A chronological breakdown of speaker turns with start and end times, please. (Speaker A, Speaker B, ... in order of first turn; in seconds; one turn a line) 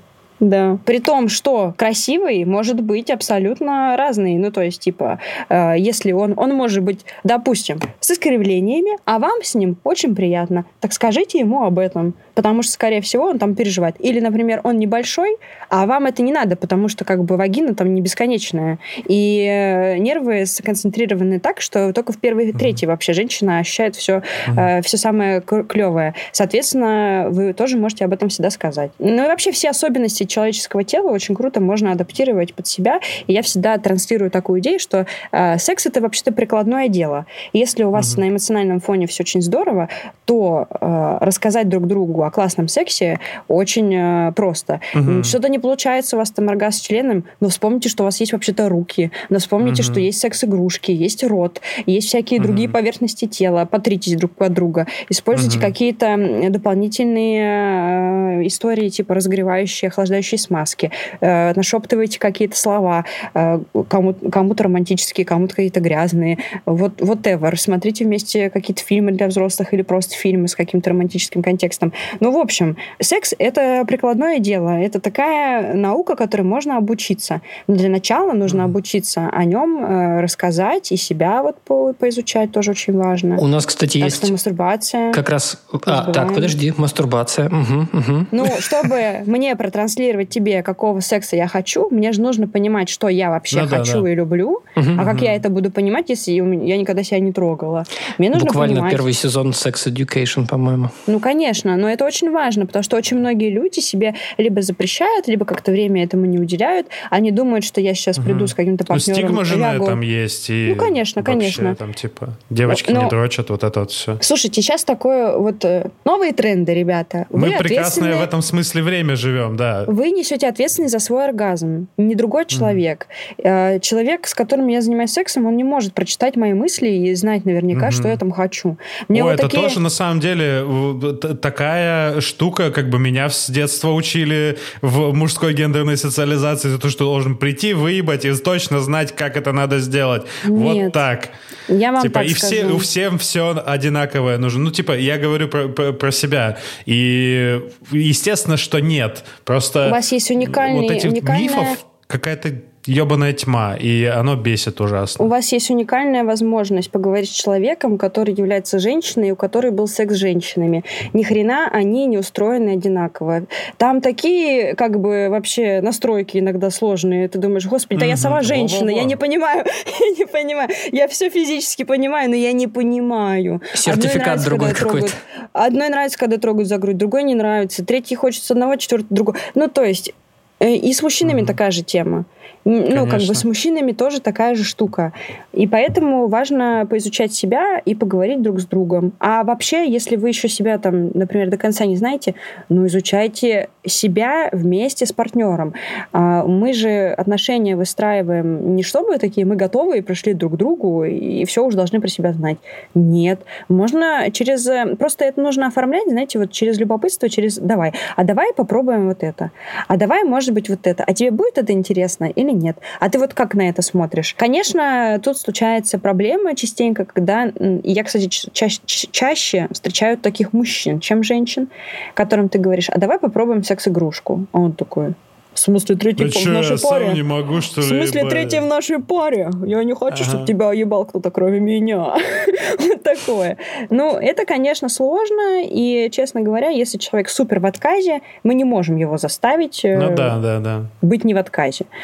Speaker A: 0.4-83.4
Speaker B: 37.9-38.2
Speaker B: 44.9-45.4
Speaker B: 49.6-50.0
Speaker B: 52.4-52.7
Speaker B: 55.3-55.7
Speaker B: 78.5-78.7
Speaker C: 83.4-84.3
Speaker A: 84.0-85.2
Speaker C: 85.1-88.4
Speaker A: 85.8-86.5
Speaker A: 88.3-99.0
Speaker B: 93.5-94.0
Speaker C: 94.8-95.1
Speaker B: 95.1-95.4
Speaker C: 98.3-100.9
Speaker A: 101.1-110.0
Speaker B: 108.2-114.2
Speaker A: 110.6-111.8
Speaker A: 112.7-113.1
Speaker A: 114.2-118.3
Speaker B: 117.3-119.9
Speaker A: 119.9-129.8
Speaker B: 122.5-122.8
Speaker B: 127.7-128.2
Speaker B: 129.1-141.3
Speaker A: 140.4-141.0
Speaker A: 141.7-142.8
Speaker B: 142.0-155.3
Speaker A: 149.8-151.8
Speaker A: 155.2-227.2
Speaker B: 167.9-169.2
Speaker C: 173.8-175.2
Speaker B: 181.2-181.5
Speaker B: 182.9-183.4
Speaker B: 226.2-228.7
Speaker A: 227.8-240.3
Speaker B: 230.1-230.5
Speaker B: 239.9-240.9
Speaker A: 241.0-241.9